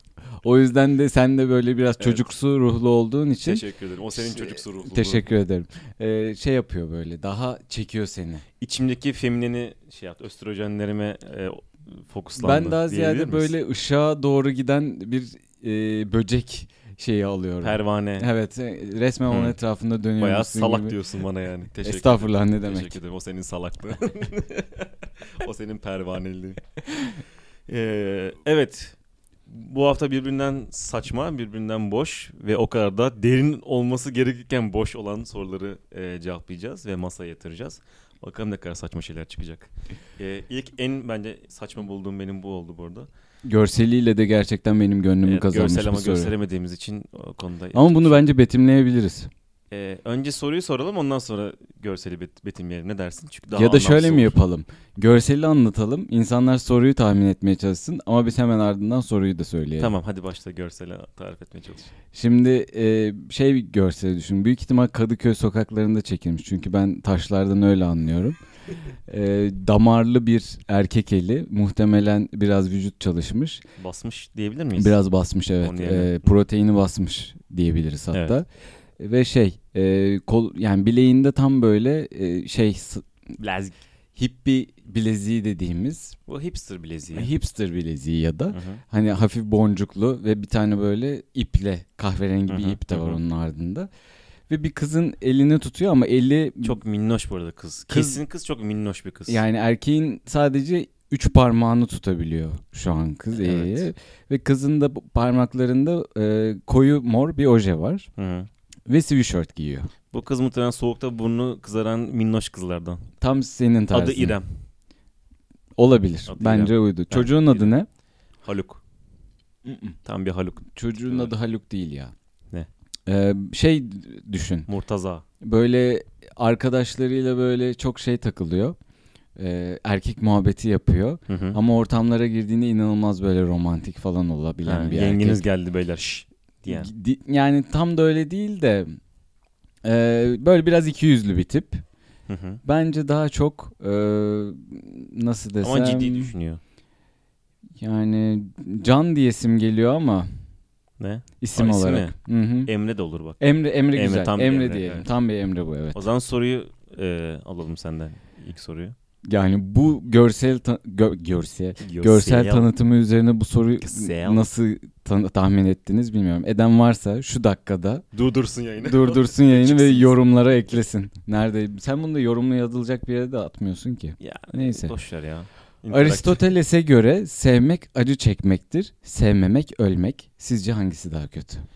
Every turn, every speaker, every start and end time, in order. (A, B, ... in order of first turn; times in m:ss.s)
0:00.4-0:08.4 A
0:02.0-0:02.2 B
0:03.4-0:05.3 B
0:08.6-0:13.5 B
0:12.4-0:21.0 A
0:17.6-0:18.3 B
0:19.3-0:19.6 B
0:20.2-0:26.6 B
0:21.8-0:23.0 A
0:27.7-0:29.0 B
0:29.5-0:43.1 B
0:43.4-0:46.3 A
0:45.2-0:48.2 B
0:47.7-0:49.3 A
0:49.7-0:54.4 B
0:53.5-0:59.9 A
0:59.8-1:01.9 B
1:02.1-1:08.4 A
1:09.1-1:13.6 A
1:13.8-1:15.0 B
1:14.8-1:18.5 A
1:15.6-1:16.3 B
1:19.0-1:23.1 A
1:23.4-1:23.8 B
1:24.2-1:26.2 A
1:26.3-1:27.3 B
1:27.1-1:33.9 A
1:28.5-1:28.8 B
1:32.5-1:33.2 B
1:34.5-1:36.8 A
1:36.6-1:39.4 B
1:37.9-1:38.2 A
1:39.3-1:48.1 A
1:43.3-1:43.9 B
1:48.2-1:48.5 B
1:48.9-1:49.9 A
1:50.1-1:53.0 B
1:53.2-1:54.4 A
1:53.9-1:54.6 B
1:55.8-1:57.9 A
1:56.3-1:57.7 B
1:58.4-1:58.8 B
1:59.6-2:00.0 A
2:00.0-2:01.3 B
2:00.7-2:02.1 A
2:03.1-2:04.7 A
2:04.7-2:05.2 B
2:05.4-2:08.8 A
2:09.4-2:15.4 A
2:11.3-2:11.6 B
2:14.6-2:16.9 B
2:16.7-2:19.0 A
2:19.8-2:21.8 A
2:22.3-2:22.6 B
2:22.6-2:26.3 A
2:25.6-2:26.6 B
2:27.8-2:30.3 A
2:31.0-2:35.1 B
2:31.4-2:32.7 A
2:33.4-2:36.0 A
2:35.9-2:39.0 B
2:39.2-2:48.0 A
2:41.8-2:42.7 B
2:43.8-2:44.4 B
2:48.1-2:50.2 B
2:48.8-2:54.9 A
2:54.2-2:56.5 B
2:55.9-3:01.6 A